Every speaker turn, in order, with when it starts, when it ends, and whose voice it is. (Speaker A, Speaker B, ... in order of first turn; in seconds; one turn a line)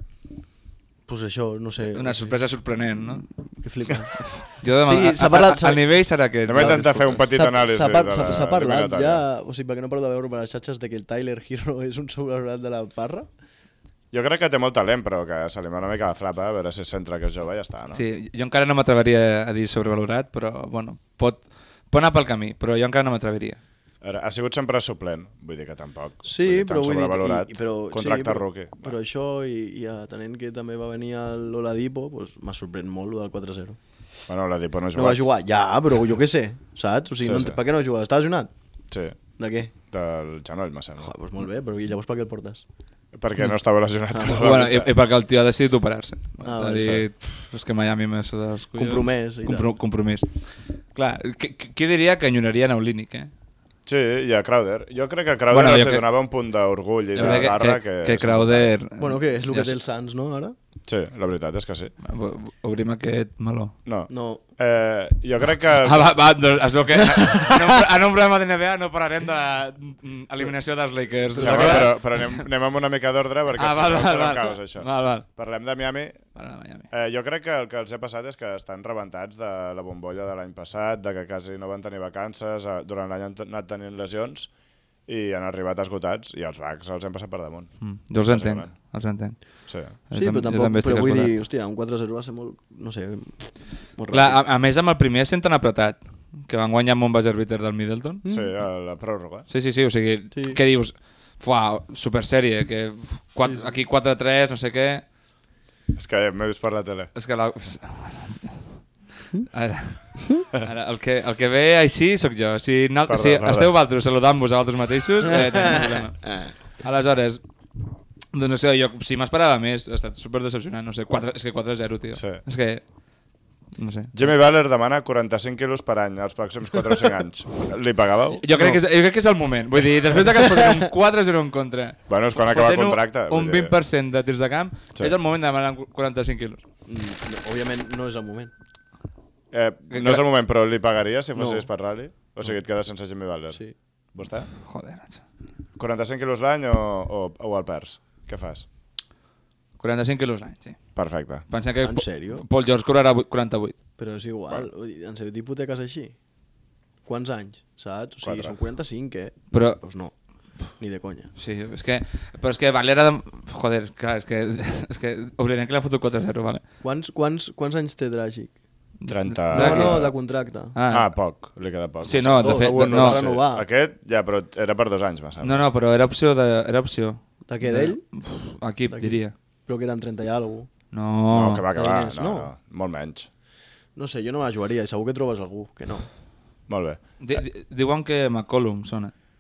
Speaker A: 1.1-2.4
Speaker B: 1.8-3.2
Speaker A: 3.3-13.3
Speaker B: 4.5-7.2
Speaker C: 6.5-9.2
Speaker C: 14.1-18.0
Speaker B: 17.9-23.6
Speaker C: 24.0-29.0
Speaker A: 26.2-33.8
Speaker C: 34.3-35.2
Speaker A: 35.0-38.5
Speaker C: 37.2-37.6
Speaker C: 38.9-39.2
Speaker A: 39.4-39.7
Speaker C: 39.9-41.1
Speaker A: 41.0-42.6
Speaker C: 43.1-44.9
Speaker A: 44.1-44.4
Speaker B: 44.3-53.3
Speaker A: 46.4-47.0
Speaker A: 48.7-49.7
Speaker C: 53.9-58.7
Speaker B: 55.5-56.1
Speaker B: 57.1-59.8
Speaker A: 57.2-57.5
Speaker A: 59.0-60.5
Speaker C: 60.9-61.9
Speaker B: 62.0-63.7
Speaker C: 63.9-66.2
Speaker A: 64.1-64.4
Speaker B: 65.8-72.5
Speaker A: 71.3-71.9
Speaker C: 71.4-76.2
Speaker B: 73.6-75.3
Speaker B: 76.3-76.9
Speaker C: 76.9-84.5
Speaker C: 85.1-88.7
Speaker B: 87.8-91.4
Speaker C: 89.7-90.0
Speaker A: 90.1-94.4
Speaker B: 94.1-98.2
Speaker A: 98.2-98.5
Speaker C: 98.3-99.5
Speaker B: 99.5-105.0
Speaker A: 100.3-100.6
Speaker A: 103.4-103.7
Speaker C: 106.0-107.1
Speaker B: 107.2-108.7
Speaker B: 109.5-117.4
Speaker A: 110.0-110.4
Speaker C: 113.1-113.7
Speaker B: 118.3-122.8
Speaker C: 122.1-122.4
Speaker B: 123.8-124.3
Speaker C: 124.1-128.8
Speaker B: 128.4-136.6
Speaker A: 128.5-128.8
Speaker C: 132.1-133.7
Speaker A: 136.9-138.5
Speaker C: 139.5-143.6
Speaker B: 139.9-140.2
Speaker A: 141.4-141.7
Speaker C: 144.1-144.5
Speaker B: 144.6-145.2
Speaker C: 145.8-148.7
Speaker B: 149.8-150.8
Speaker C: 151.0-151.4
Speaker B: 151.5-153.8
Speaker A: 151.8-152.4
Speaker A: 154.0-156.2
Speaker A: 157.1-161.3
Speaker C: 158.2-158.6
Speaker B: 159.5-159.8
Speaker B: 161.4-166.6
Speaker A: 166.8-168.6
Speaker B: 169.0-170.1
Speaker C: 169.1-170.1
Speaker A: 169.5-170.8
Speaker B: 170.7-171.1
Speaker C: 170.9-175.7
Speaker B: 172.0-173.2
Speaker A: 172.4-173.7
Speaker B: 175.4-179.3
Speaker A: 177.5-178.2
Speaker A: 178.9-180.7
Speaker B: 180.9-181.7
Speaker C: 181.3-183.3
Speaker A: 181.7-182.5
Speaker A: 184.0-186.1
Speaker C: 186.7-187.0
Speaker B: 187.2-189.1